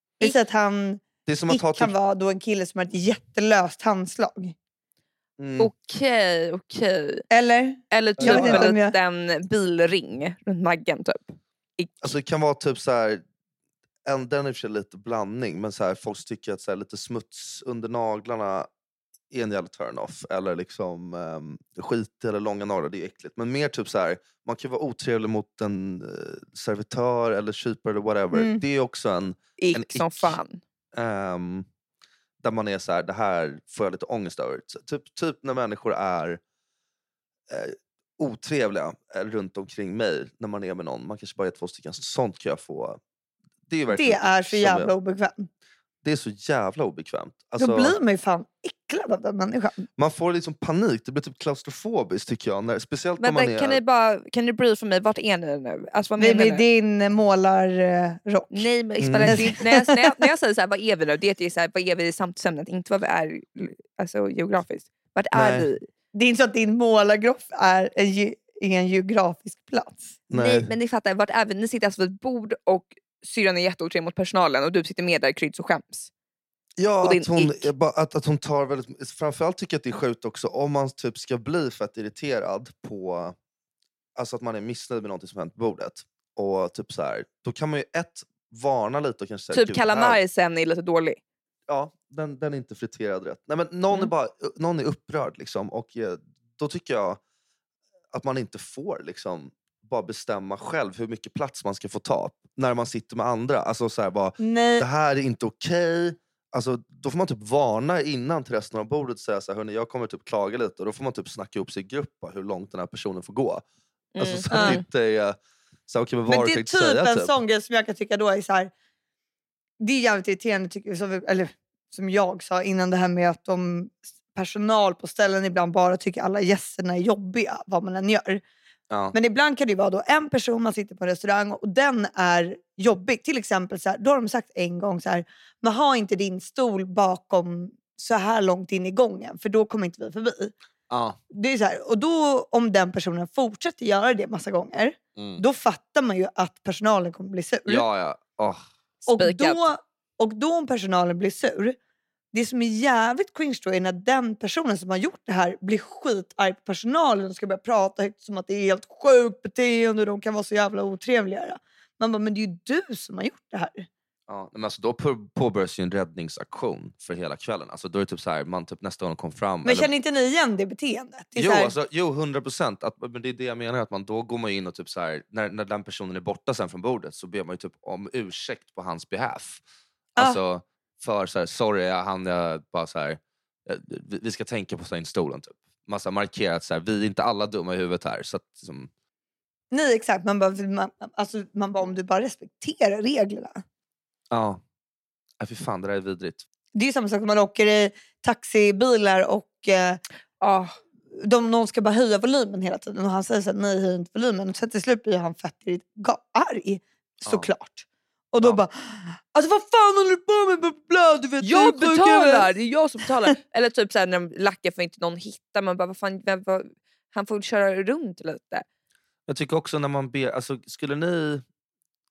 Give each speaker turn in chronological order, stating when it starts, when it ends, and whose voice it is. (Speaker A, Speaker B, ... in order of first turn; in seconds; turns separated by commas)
Speaker A: 0.2-4.5, Speaker B: 1.2-1.9, Speaker B: 5.4-5.7, Speaker C: 5.6-7.3, Speaker A: 7.3-8.9, Speaker C: 7.9-12.1, Speaker B: 8.2-8.7, Speaker B: 12.0-13.2, Speaker B: 14.0-18.7, Speaker B: 19.3-30.4, Speaker A: 28.3-28.6, Speaker C: 29.6-30.6, Speaker B: 30.9-31.7, Speaker B: 32.4-36.4, Speaker B: 37.5-43.0, Speaker B: 43.7-44.9, Speaker A: 43.9-45.5, Speaker B: 46.0-48.0, Speaker A: 47.6-49.9, Speaker B: 50.0-53.8, Speaker C: 53.2-56.6, Speaker A: 56.2-58.7, Speaker C: 58.5-65.8, Speaker B: 59.0-59.5, Speaker A: 59.2-60.1, Speaker B: 65.3-65.7, Speaker A: 66.1-70.2, Speaker B: 70.3-70.7, Speaker C: 70.3-76.1, Speaker B: 76.8-83.3, Speaker C: 77.0-77.7, Speaker B: 84.2-90.2, Speaker C: 89.5-91.2, Speaker B: 91.7-97.2, Speaker B: 98.1-113.6, Speaker A: 104.4-104.8, Speaker C: 114.1-114.8, Speaker B: 114.2-117.3, Speaker A: 114.5-114.8, Speaker A: 116.3-118.7, Speaker A: 119.8-128.4, Speaker B: 128.9-129.1, Speaker A: 129.1-140.5, Speaker B: 140.9-141.2, Speaker A: 141.3-147.8, Speaker B: 145.2-145.4, Speaker B: 147.7-148.6, Speaker C: 149.1-149.6, Speaker A: 149.1-151.8, Speaker A: 152.3-163.9, Speaker B: 164.3-169.9, Speaker A: 169.6-171.7, Speaker B: 171.3-179.6, Speaker B: 180.2-188.9, Speaker A: 189.7-193.6, Speaker B: 194.3-194.6, Speaker B: 195.4-196.4, Speaker A: 196.7-200.0, Speaker C: 200.4-200.8, Speaker A: 201.1-212.5, Speaker B: 207.2-207.5, Speaker C: 211.4-218.6, Speaker B: 219.3-221.4